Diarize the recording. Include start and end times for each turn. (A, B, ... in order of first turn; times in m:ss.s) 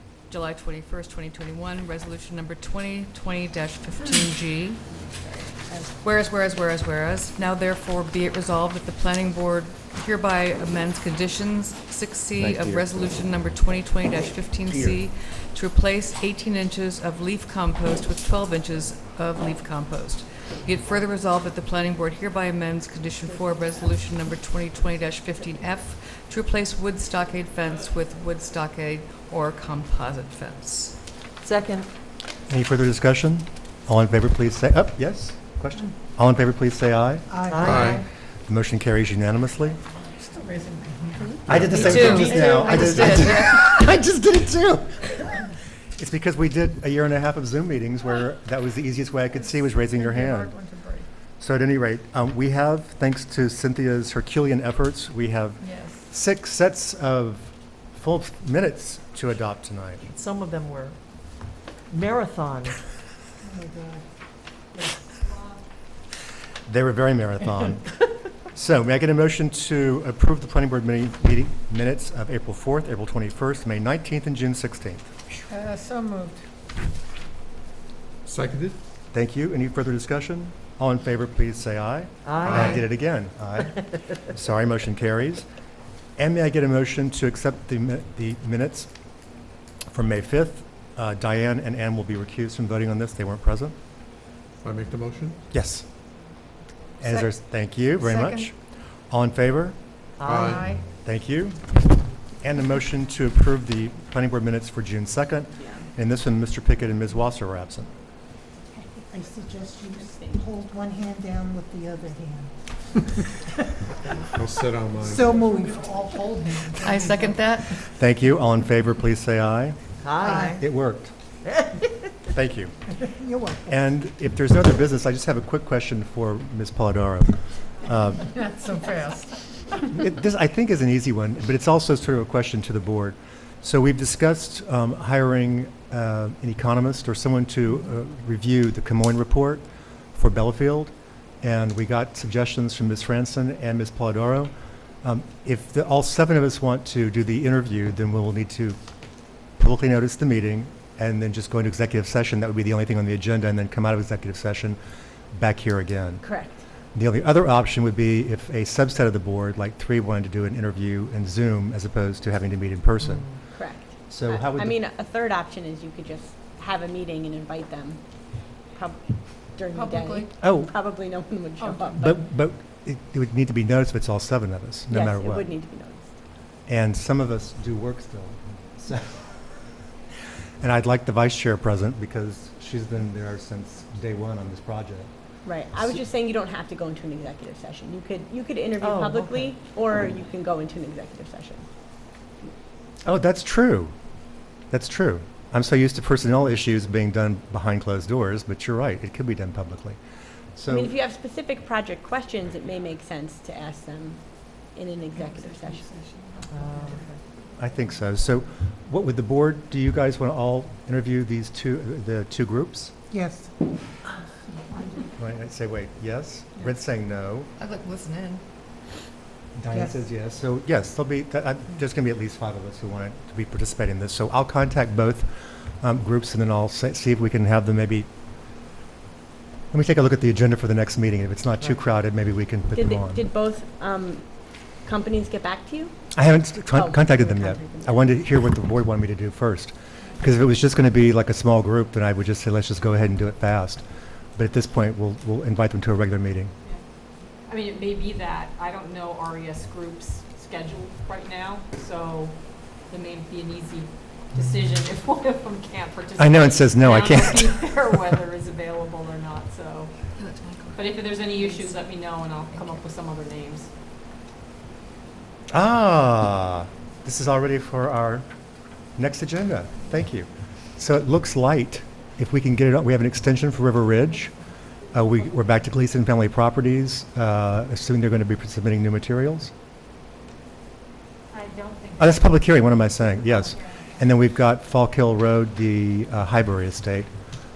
0:00.3-0:04.8 A
0:05.0-0:05.9 B
0:06.0-0:31.0 A
0:12.4-0:12.9 C
0:14.7-0:15.0 C
0:31.4-0:31.9 D
0:32.5-0:37.4 C
0:37.3-0:37.8 E
0:37.5-0:38.1 D
0:37.6-0:38.0 F
0:38.5-0:39.8 C
0:40.4-0:41.3 G
0:41.5-0:50.6 C
0:41.7-0:43.6 A
0:42.0-0:42.9 G
0:49.5-0:51.1 G
0:51.4-1:00.0 C
0:55.6-0:56.0 G
1:00.1-1:01.0 D
1:01.9-1:02.8 D
1:03.4-1:04.0 E
1:05.3-1:05.6 H
1:06.7-1:08.0 C
1:08.5-1:15.1 C
1:15.4-1:16.4 G
1:18.3-1:18.8 F
1:19.1-1:25.5 C
1:22.3-1:22.8 D
1:26.2-1:28.9 C
1:29.9-1:33.8 C
1:34.6-1:35.5 F
1:35.5-1:35.9 C
1:37.0-1:39.8 C
1:38.0-1:38.5 G
1:40.2-1:40.5 D
1:40.2-1:40.7 F
1:40.4-1:40.8 G
1:41.0-1:41.8 C
1:42.4-1:47.9 C
1:48.7-1:49.1 B
1:49.1-1:52.5 E
1:50.0-1:50.4 B
1:53.4-1:53.8 E
1:54.4-1:55.5 F
1:55.0-1:57.3 E
1:56.8-1:57.8 A
1:58.0-2:01.1 C
2:00.0-2:00.5 D
2:00.2-2:00.6 G
2:00.3-2:00.6 E
2:02.3-2:02.8 C
2:03.0-2:03.7 E
2:03.7-2:08.4 C
2:08.3-2:09.7 G
2:09.9-2:24.5 C
2:25.0-2:28.8 C
2:29.6-2:34.8 C
2:35.3-2:36.2 C
2:36.2-2:36.6 B
2:37.0-2:43.3 C
2:43.5-2:48.0 B
2:44.1-2:44.8 C
2:48.7-2:52.2 B
2:49.7-2:50.3 G
2:50.4-2:50.7 C
2:52.0-2:55.5 C
2:54.9-2:56.1 B
2:56.7-2:59.3 C
3:00.6-3:05.1 C
3:05.4-3:11.6 B
3:08.8-3:09.5 D
3:13.0-3:13.9 C
3:14.7-3:20.0 C
3:20.6-3:21.0 C
3:20.7-3:26.0 B
3:26.5-3:27.0 D
3:27.6-3:32.9 C
3:33.1-3:33.5 E
3:35.2-3:37.5 C
3:37.6-3:38.4 A
3:39.6-3:45.3 C
3:45.8-3:48.1 C
3:49.7-3:53.3 C
3:52.7-3:56.0 B
3:56.1-4:03.8 C
3:56.7-3:58.2 B
4:04.4-4:06.5 C
4:07.5-4:12.4 H
4:12.9-4:19.9 H
4:16.2-4:17.8 C
4:20.2-4:21.8 A
4:20.8-4:23.7 H
4:22.5-4:22.8 A
4:25.5-4:28.3 C
4:29.0-4:34.3 C
4:34.9-4:39.5 C
4:41.3-4:42.2 H
4:42.0-4:47.1 C